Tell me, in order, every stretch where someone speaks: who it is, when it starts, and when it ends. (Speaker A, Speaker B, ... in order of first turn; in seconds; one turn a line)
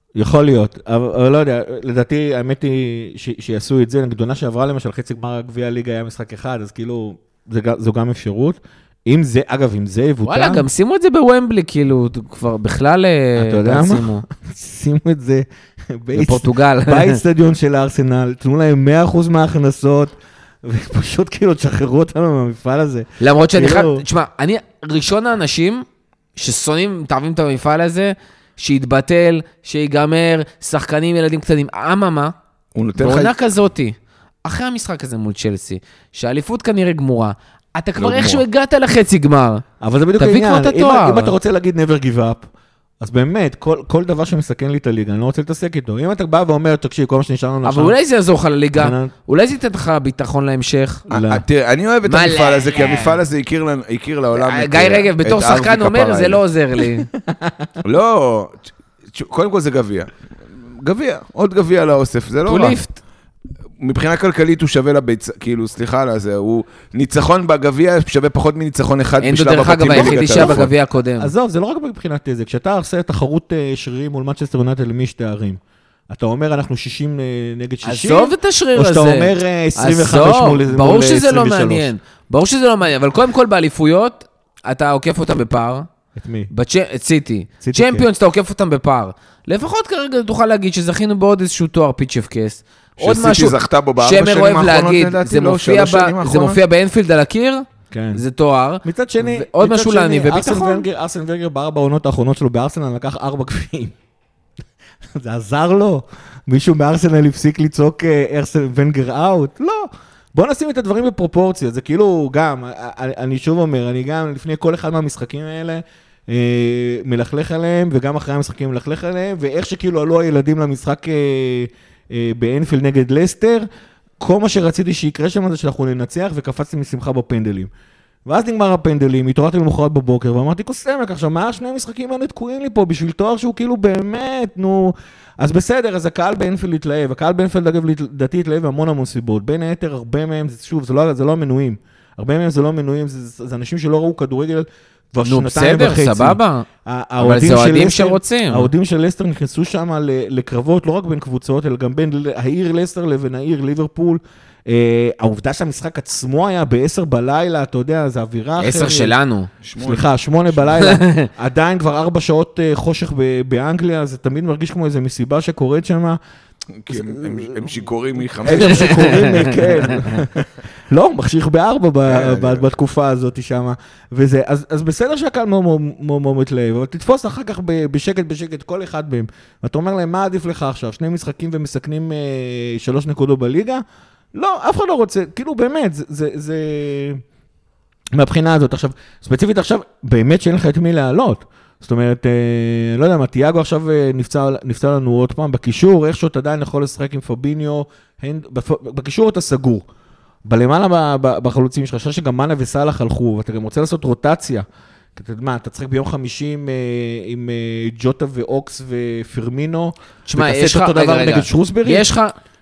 Speaker A: 0.1-10.7
Speaker B: 10.2-14.2
Speaker A: 13.4-24.1
Speaker B: 16.1-17.2
Speaker B: 23.2-32.4
Speaker C: 32.8-33.4
Speaker B: 33.0-39.6
Speaker C: 38.0-38.4
Speaker A: 39.8-42.5
Speaker B: 40.2-41.3
Speaker A: 43.0-48.0
Speaker B: 47.6-51.1
Speaker A: 48.8-49.1
Speaker A: 51.1-51.4
Speaker C: 51.1-56.4
Speaker B: 52.0-53.2
Speaker B: 54.4-57.1
Speaker A: 57.3-57.7
Speaker C: 57.8-60.1
Speaker C: 60.6-62.8
Speaker B: 62.5-63.0
Speaker C: 63.8-70.7
Speaker B: 69.2-71.3
Speaker A: 69.9-70.7
Speaker A: 71.2-81.9
Speaker B: 77.8-85.9
Speaker A: 86.2-86.5
Speaker B: 86.5-100.9
Speaker A: 87.6-88.0
Speaker C: 93.0-96.6
Speaker A: 97.9-98.2
Speaker A: 98.8-103.9
Speaker A: 105.1-123.7
Speaker A: 124.2-127.7
Speaker A: 128.3-159.2
Speaker B: 145.2-146.7
Speaker B: 147.2-148.7
Speaker B: 158.6-159.5
Speaker C: 159.6-160.8
Speaker A: 159.8-166.2
Speaker B: 160.8-161.3
Speaker C: 166.7-170.4
Speaker A: 166.9-167.7
Speaker A: 168.4-170.3
Speaker B: 168.6-170.1
Speaker A: 170.9-183.8
Speaker C: 172.1-172.7
Speaker A: 184.3-187.2
Speaker A: 188.2-199.9
Speaker A: 200.4-212.1
Speaker B: 210.3-212.3